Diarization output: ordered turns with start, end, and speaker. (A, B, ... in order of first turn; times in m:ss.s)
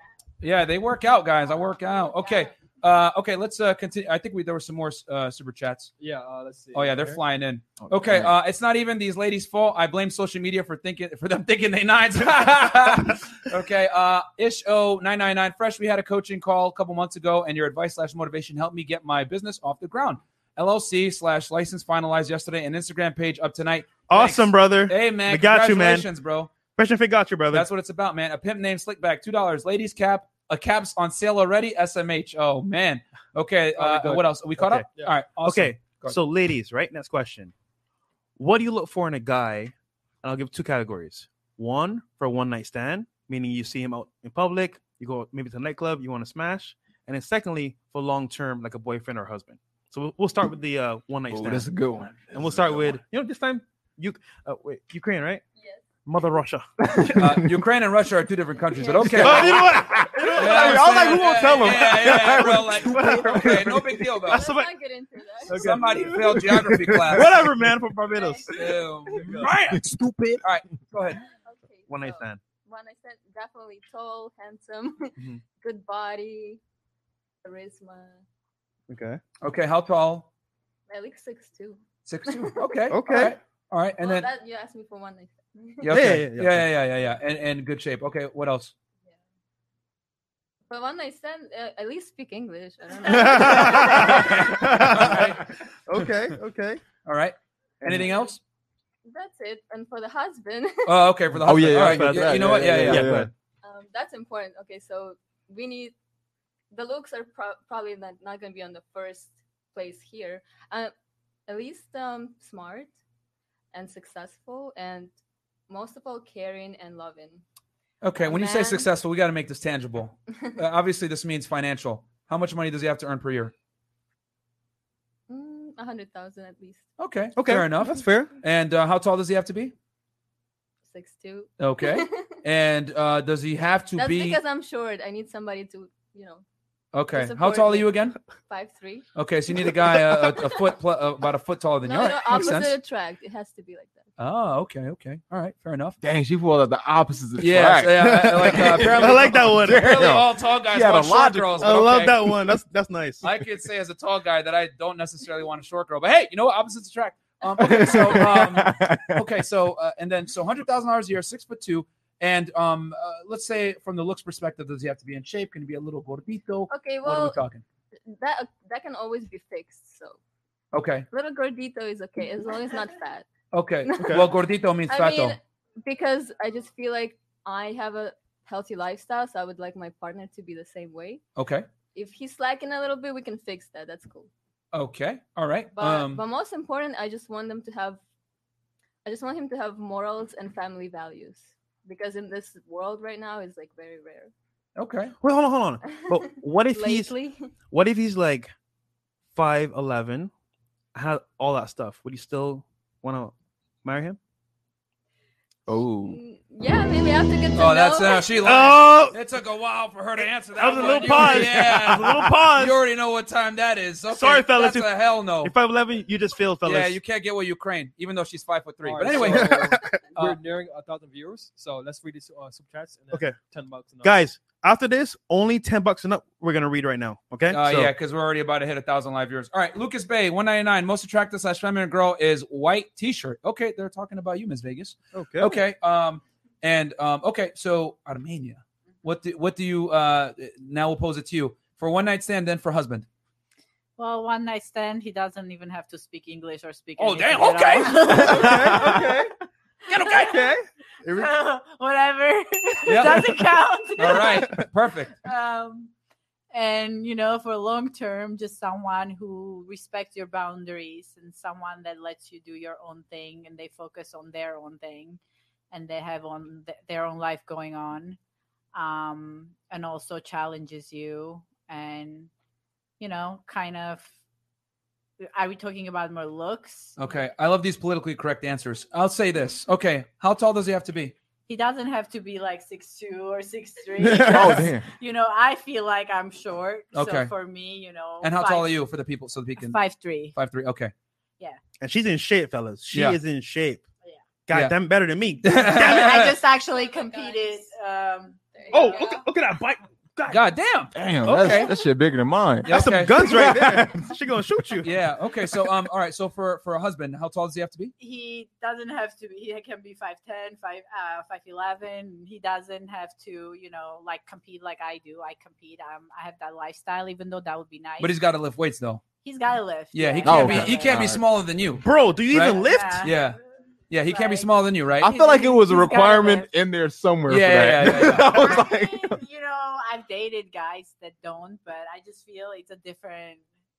0:00.4-0:05.9 A
0:02.0-0:02.5 B
0:06.0-0:07.2 C
0:06.7-0:26.5 A
0:07.8-0:08.3 D
0:24.1-0:26.1 E
0:26.8-0:27.7 E
0:27.5-0:36.2 A
0:33.8-0:34.9 E
0:35.4-0:37.5 E
0:38.4-0:51.8 E
0:51.3-0:53.0 D
0:52.3-0:55.4 E
0:55.6-0:55.8 B
0:56.1-0:57.4 E
0:56.9-0:57.5 D
0:57.1-1:04.5 A
0:58.7-0:59.7 B
0:59.0-1:04.7 E
0:59.1-1:04.0 D
1:04.3-1:05.9 B
1:05.4-1:10.2 E
1:05.5-1:07.3 A
1:06.0-1:07.2 D
1:08.5-1:11.2 A
1:09.7-1:10.2 D
1:11.4-1:16.6 B
1:11.9-1:12.4 E
1:17.4-1:18.2 B
1:18.9-1:19.2 E
1:19.4-1:20.3 A
1:20.9-1:22.7 B
1:22.1-1:24.3 A
1:22.9-1:23.4 E
1:24.0-1:26.0 B
1:25.8-1:28.7 A
1:25.9-1:26.7 E
1:30.7-1:34.3 B
1:33.0-1:35.3 E
1:33.4-1:35.5 A
1:35.9-1:36.8 E
1:37.0-1:38.4 A
1:37.8-1:38.1 E
1:39.1-1:41.0 B
1:40.9-1:43.1 A
1:41.4-1:43.3 D
1:41.7-1:43.3 E
1:43.6-1:45.9 B
1:46.7-1:50.9 B
1:51.5-1:53.0 B
1:53.7-1:55.1 B
1:55.7-1:57.4 B
1:58.0-2:03.5 A
1:58.2-1:58.9 B
2:05.3-2:06.9 B
2:07.0-2:09.7 A
2:07.4-2:08.3 E
2:10.8-2:12.4 B
2:11.6-2:14.4 A
2:14.0-2:16.4 B
2:16.9-2:18.2 A
2:17.1-2:19.1 B
2:19.2-2:22.8 A
2:19.9-2:20.6 B
2:21.8-2:24.1 B
2:24.2-2:26.0 A
2:26.0-2:32.0 D
2:27.4-2:32.2 A
2:28.4-2:30.0 E
2:31.6-2:33.2 E
2:33.2-2:47.6 A
2:37.6-2:39.2 D
2:46.7-2:47.4 B
2:48.1-2:50.2 B
2:50.7-2:51.1 A
2:51.1-2:53.3 B
2:53.5-2:55.4 A
2:53.8-2:54.3 B
2:54.0-2:54.3 E
2:54.9-3:01.2 B
3:01.4-3:01.6 A
3:01.9-3:04.3 B
3:04.7-3:06.2 A
3:05.8-3:08.0 B
3:09.0-3:14.3 B
3:14.8-3:15.1 A
3:15.2-3:17.1 E
3:15.9-3:17.5 B
3:17.7-3:18.5 E
3:19.4-3:20.3 E
3:21.0-3:24.2 E
3:25.7-3:26.2 D
3:26.0-3:28.8 B
3:27.6-3:35.5 A
3:28.4-3:29.2 E
3:30.5-3:32.8 E
3:30.8-3:31.1 B
3:34.1-3:37.0 E
3:36.6-3:40.4 A
3:38.8-3:44.2 C
3:39.1-3:40.0 E
3:43.1-3:43.4 E
3:44.0-3:47.9 E
3:47.5-4:03.1 A
3:55.1-3:55.6 E
4:04.0-4:09.2 F
4:07.0-4:08.4 A
4:08.1-4:09.3 E
4:09.9-4:10.5 A
4:09.9-4:10.5 F
4:10.2-4:11.3 E
4:11.0-4:14.6 F
4:12.9-4:13.4 A
4:14.0-4:15.2 A
4:15.2-4:15.9 F
4:16.5-4:28.2 F
4:28.7-4:32.3 F
4:33.0-4:34.1 F
4:35.2-4:37.0 F
4:37.0-4:41.2 A
4:41.5-4:48.8 F
4:44.0-4:44.9 D
4:46.9-4:47.3 A
4:48.2-4:50.9 A
4:49.6-4:50.3 F
4:51.8-4:53.8 E
4:52.9-4:53.2 A
4:54.5-4:56.2 E
4:55.4-4:56.4 A
4:55.5-4:59.1 F
4:56.6-4:57.7 B
4:58.5-4:59.3 B
4:58.7-5:00.4 E
5:00.3-5:01.8 A
5:01.0-5:04.1 D
5:02.6-5:03.4 A
5:02.7-5:04.9 E
5:04.8-5:07.9 A
5:08.0-5:18.2 F
5:18.0-5:19.0 A
5:19.2-5:21.1 F
5:19.9-5:23.4 A
5:20.2-5:21.2 D
5:21.8-5:23.1 E
5:22.4-5:23.2 F
5:23.9-5:25.2 A
5:24.1-5:26.5 F
5:25.0-5:29.2 D
5:27.3-5:28.4 A
5:27.9-5:33.4 F